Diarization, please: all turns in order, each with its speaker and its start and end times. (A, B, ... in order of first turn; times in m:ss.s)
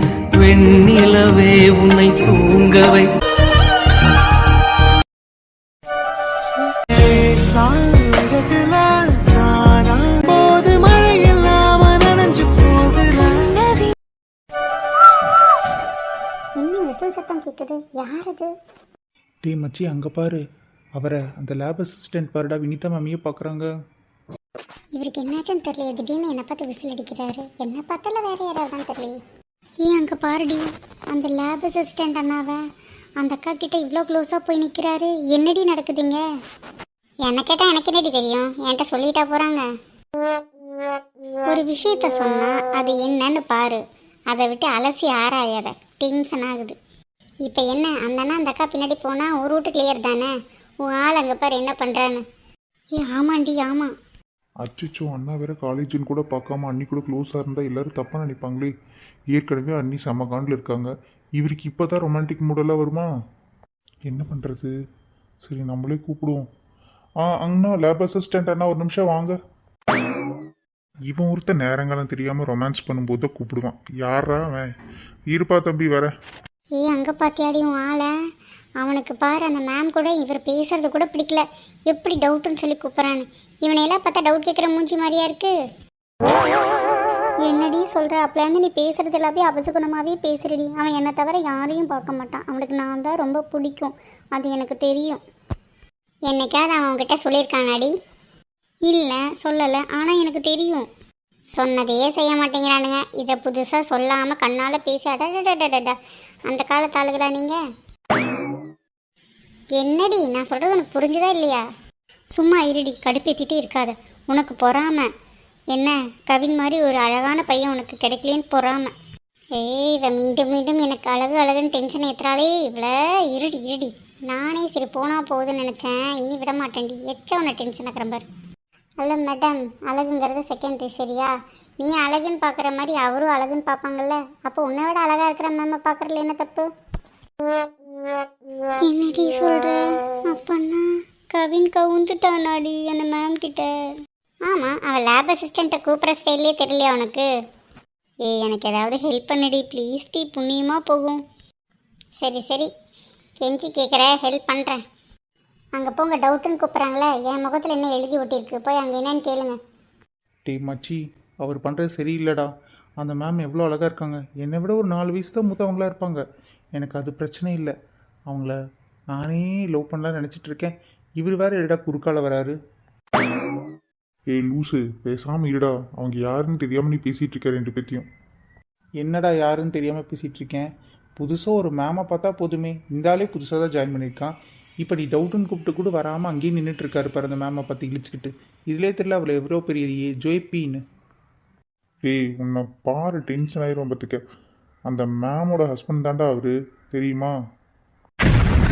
0:00.3-0:03.1 A
0:07.0-0:13.8 A
0:16.6-0:18.5 B
0:19.4-0:20.4 C
0:21.0-0:23.7 C
0:24.9-0:29.2 B
0:29.8-0:32.6 B
0:33.2-0:36.2 B
0:37.2-0:39.6 B
0:41.4-0:46.7 B
0:47.4-0:50.3 B
0:50.9-0:52.2 B
0:52.9-0:53.9 B
0:54.6-0:58.7 D
0:59.3-1:03.1 D
1:04.1-1:04.7 D
1:05.4-1:06.4 D
1:07.3-1:09.3 D
1:11.1-1:14.6 D
1:15.3-1:16.1 D
1:16.8-1:18.1 B
1:18.8-1:25.5 B
1:27.4-1:35.2 B
1:36.3-1:37.9 B
1:38.8-1:40.9 B
1:41.5-1:47.6 B
1:49.7-1:51.6 B
1:52.3-1:55.1 B
1:55.7-1:58.9 B
1:59.6-2:08.3 B
2:09.0-2:16.7 B
2:18.7-2:23.9 B
2:24.4-2:27.3 B
2:28.2-2:31.2 B
2:32.2-2:32.7 B
2:33.4-2:34.8 B
2:35.7-2:39.6 B
2:40.5-2:46.2 C
2:40.5-2:41.0 D
2:46.8-2:47.7 C
2:48.3-2:48.5 C
2:49.1-2:52.5 C
2:54.3-2:58.0 D
2:59.0-3:00.7 C
3:01.2-3:10.8 C
3:03.6-3:04.0 D
3:12.0-3:14.2 D
3:14.9-3:17.3 D